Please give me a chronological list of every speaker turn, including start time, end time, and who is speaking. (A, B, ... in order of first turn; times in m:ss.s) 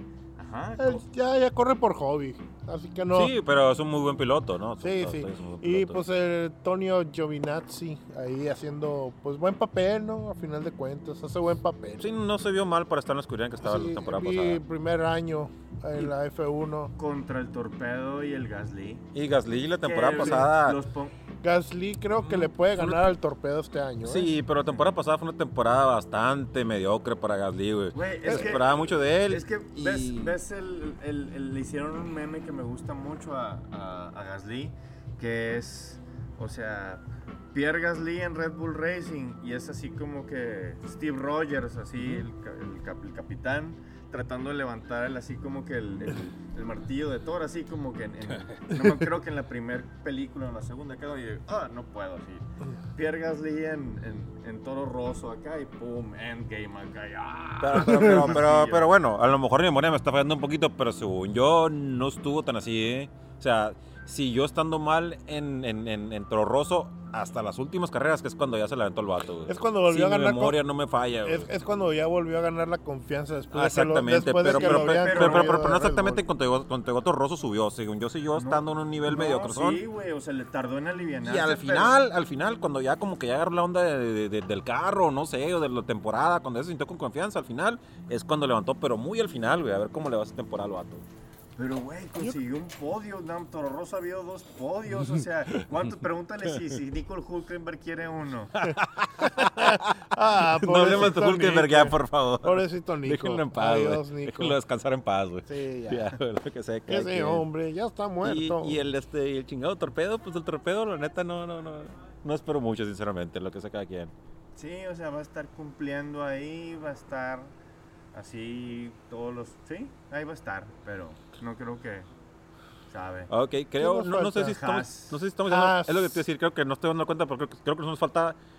0:00.4-0:01.0 A
0:00.8-0:03.3 B
0:03.1-0:06.0 C
0:04.8-0:12.1 B
0:12.0-0:14.6 C
0:13.6-0:16.9 B
0:17.0-0:19.0 A
0:19.1-0:20.8 C
0:19.8-0:21.1 A
0:20.2-0:20.5 B
0:21.4-0:24.3 B
0:22.2-0:23.0 C
0:24.0-0:30.3 C
0:27.9-0:58.9 A
0:57.6-1:11.5 C
1:09.5-1:10.6 B
1:11.2-1:16.2 B
1:13.5-1:19.8 C
1:14.5-1:15.6 A
1:18.3-1:22.0 A
1:21.2-1:31.0 C
1:31.6-1:38.6 A
1:38.6-1:47.5 C
1:38.6-1:44.6 B
1:45.4-1:46.2 B
1:46.9-1:48.8 B
1:48.2-1:54.1 C
1:54.6-1:57.5 A
1:58.1-2:02.1 A
2:02.9-2:03.3 A
2:03.3-2:08.4 C
2:03.8-2:04.5 B
2:04.4-2:05.2 A
2:05.5-2:06.2 B